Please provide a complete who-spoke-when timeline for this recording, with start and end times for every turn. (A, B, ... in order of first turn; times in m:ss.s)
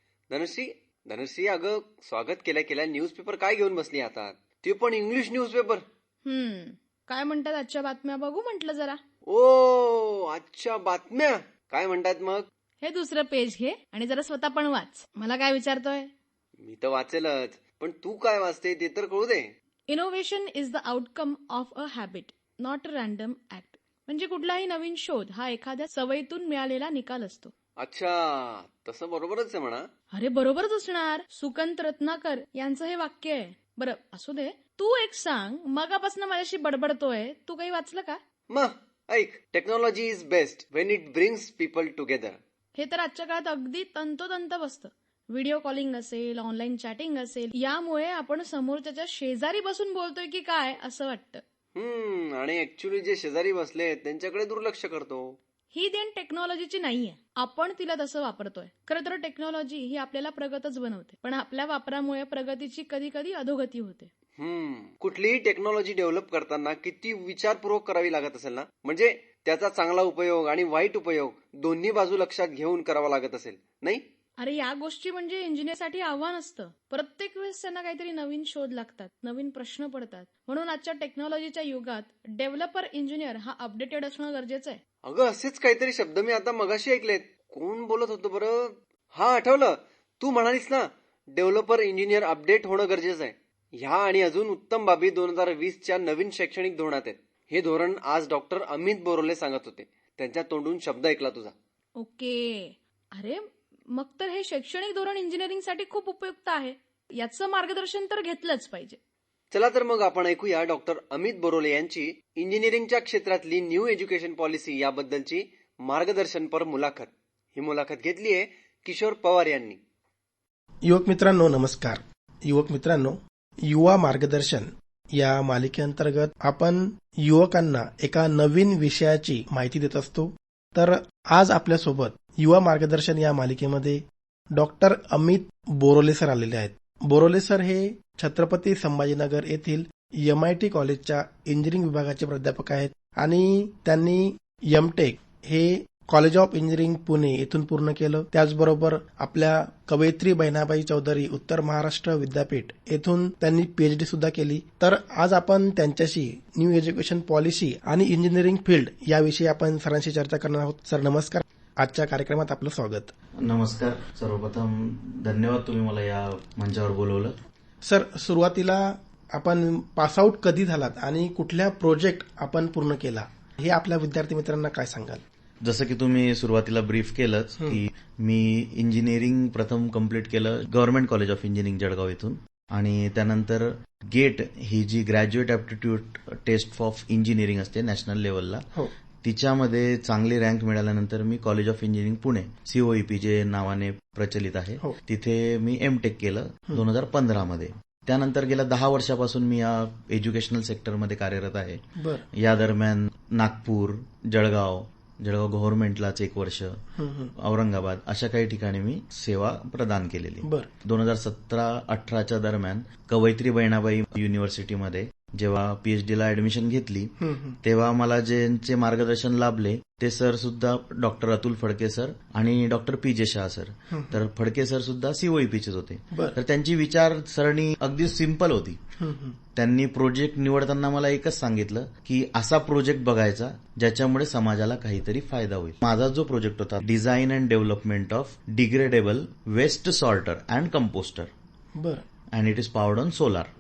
0:00.3-0:05.8 A
0:06.2-0:09.0 B
0:09.3-0:12.5 A
0:12.8-0:16.1 B
0:16.6-0:19.5 A
0:19.9-0:27.5 B
0:27.8-0:29.9 A
0:30.1-0:38.2 B
0:38.5-0:42.4 A
0:42.8-0:51.4 B
0:51.8-0:55.4 A
0:55.7-1:04.1 B
1:04.4-1:14.0 A
1:14.4-1:24.8 B
1:25.0-1:41.5 A
1:42.0-1:49.0 B
1:49.5-1:59.8 A
2:00.8-2:43.1 C
2:43.4-2:47.3 D
2:47.8-2:55.2 C
2:55.6-3:08.7 D
3:09.2-3:26.8 D
3:22.0-3:22.3 C
3:27.0-3:27.3 C
3:27.4-3:48.8 D
3:30.4-3:30.7 C
3:37.2-3:37.6 C
3:43.9-3:44.2 C
3:46.1-3:46.4 C
3:49.0-3:49.4 C
3:49.6-4:01.3 D
4:01.8-4:02.1 C
4:02.3-4:03.5 D